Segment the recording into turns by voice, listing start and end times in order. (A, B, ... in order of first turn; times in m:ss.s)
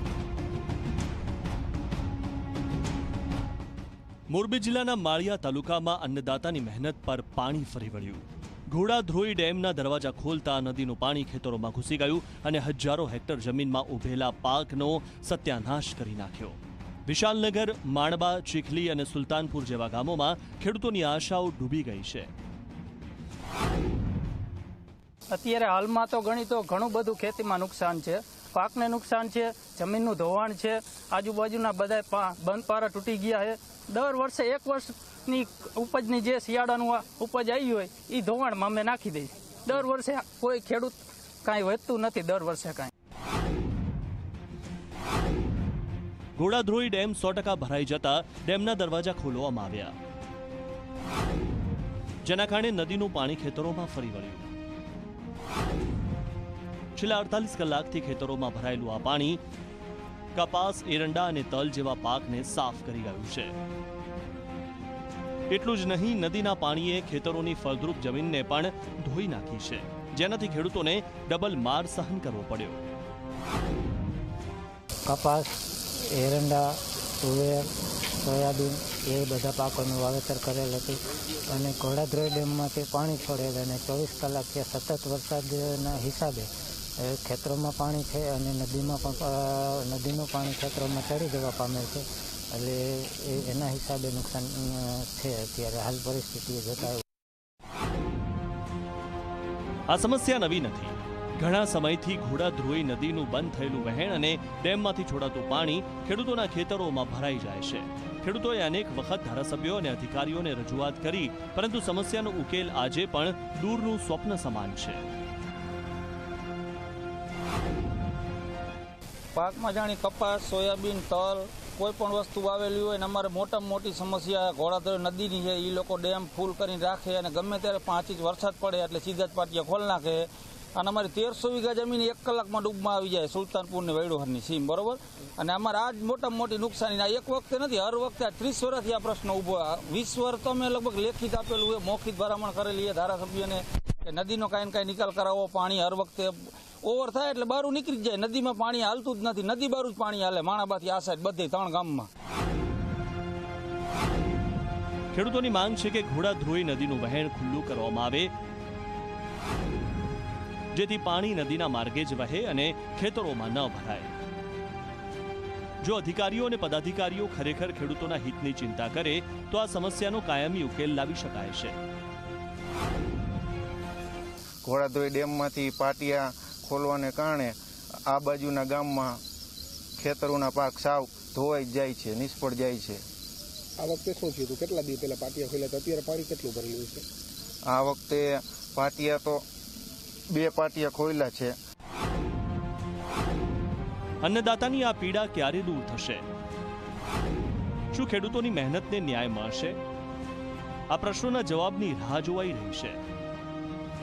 0:04.3-0:22.3 A
0:25.3-0:42.9 B
0:46.4-0:49.9 A
0:52.2-0:54.5 A
0:57.0-0:59.4 A
1:00.3-1:03.6 A
1:05.5-1:12.8 A
1:15.1-1:37.0 C
1:39.9-1:55.0 A
1:59.3-2:32.1 D
2:35.1-2:38.3 A
2:40.7-2:44.2 A
2:45.8-2:51.8 A
2:54.6-2:57.6 E
2:58.1-2:59.2 E
3:00.0-3:03.0 E
3:03.8-3:07.0 F
3:07.7-3:09.4 E
3:10.3-3:11.5 E
3:14.2-3:16.2 A
3:17.9-3:19.8 A
3:20.9-3:23.0 A